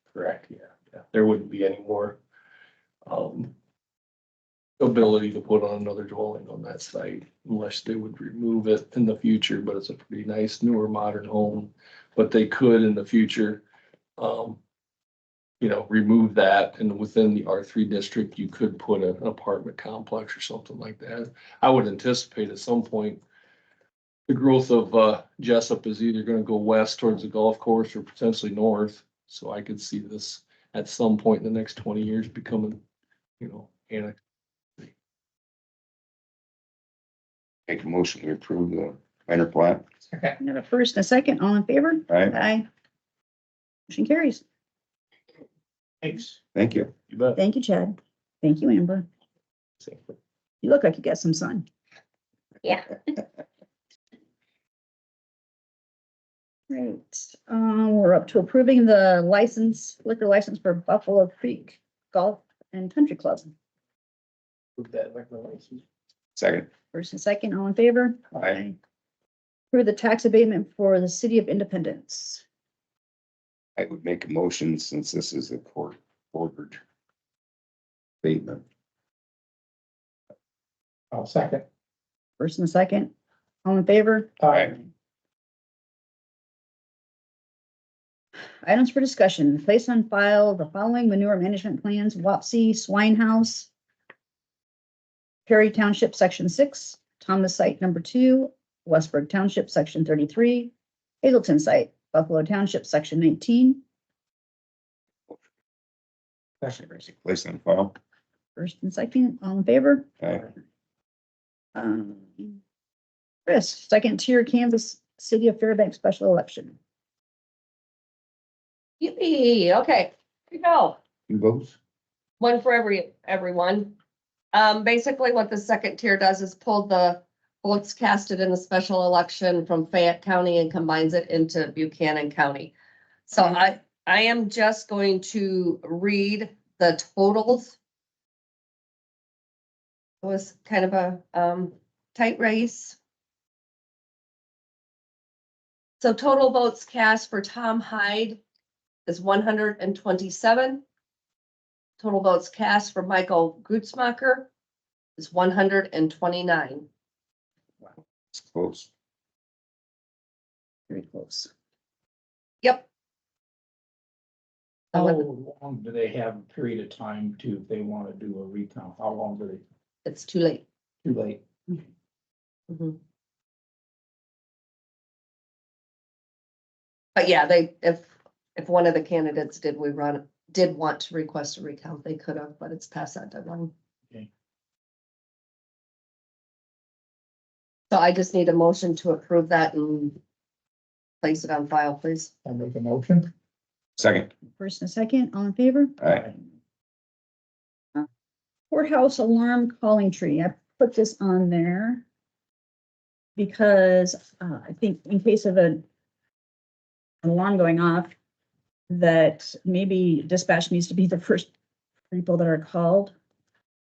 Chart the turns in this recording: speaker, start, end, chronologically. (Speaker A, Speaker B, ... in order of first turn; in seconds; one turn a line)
Speaker A: 0.1-0.6
Speaker A: 1.1-2.2
Speaker A: 3.0-3.5
Speaker A: 4.8-13.6
Speaker A: 14.2-14.6
Speaker A: 15.6-23.2
Speaker A: 24.3-32.8
Speaker A: 33.4-34.1
Speaker B: 37.7-39.8
Speaker C: 40.1-40.4
Speaker D: 40.4-42.6
Speaker B: 42.1-42.3
Speaker D: 43.9-44.4
Speaker C: 46.0-46.4
Speaker B: 46.5-46.9
Speaker A: 47.1-47.4
Speaker D: 47.3-49.1
Speaker D: 50.6-51.6
Speaker D: 56.7-63.5
Speaker C: 64.8-65.8
Speaker B: 66.3-66.7
Speaker D: 66.9-68.8
Speaker B: 68.3-68.6
Speaker D: 69.7-72.4
Speaker B: 73.8-76.8
Speaker B: 78.2-78.6
Speaker C: 81.1-81.6
Speaker D: 82.4-83.1
Speaker D: 83.6-84.9
Speaker C: 84.4-84.7
Speaker D: 88.6-93.7
Speaker D: 95.5-103.8
Speaker B: 106.6-108.0
Speaker D: 108.5-110.1
Speaker B: 110.2-110.5
Speaker D: 111.7-112.6
Speaker D: 113.5-116.8
Speaker E: 119.0-121.0
Speaker B: 121.3-121.8
Speaker E: 122.4-124.0
Speaker E: 124.5-132.7
Speaker E: 133.3-137.8
Speaker E: 140.2-143.0
Speaker E: 146.0-148.4
Speaker E: 149.1-150.8
Speaker E: 152.0-154.5
Speaker E: 155.2-156.8
Speaker B: 158.3-158.9
Speaker D: 160.9-161.5
Speaker E: 162.6-162.9
Speaker E: 164.9-165.2
Speaker C: 164.9-169.6
Speaker E: 170.0-170.6
Speaker C: 171.0-171.4
Speaker E: 172.7-173.0
Speaker E: 177.1-183.7
Speaker E: 187.9-190.2
Speaker E: 191.2-192.3
Speaker C: 192.4-193.3
Speaker B: 194.0-194.3
Speaker D: 194.6-196.3
Speaker B: 196.0-196.2
Speaker D: 198.7-202.0
Speaker D: 203.3-205.8
Speaker D: 207.2-208.1
Speaker D: 208.9-211.5
Speaker D: 212.1-213.1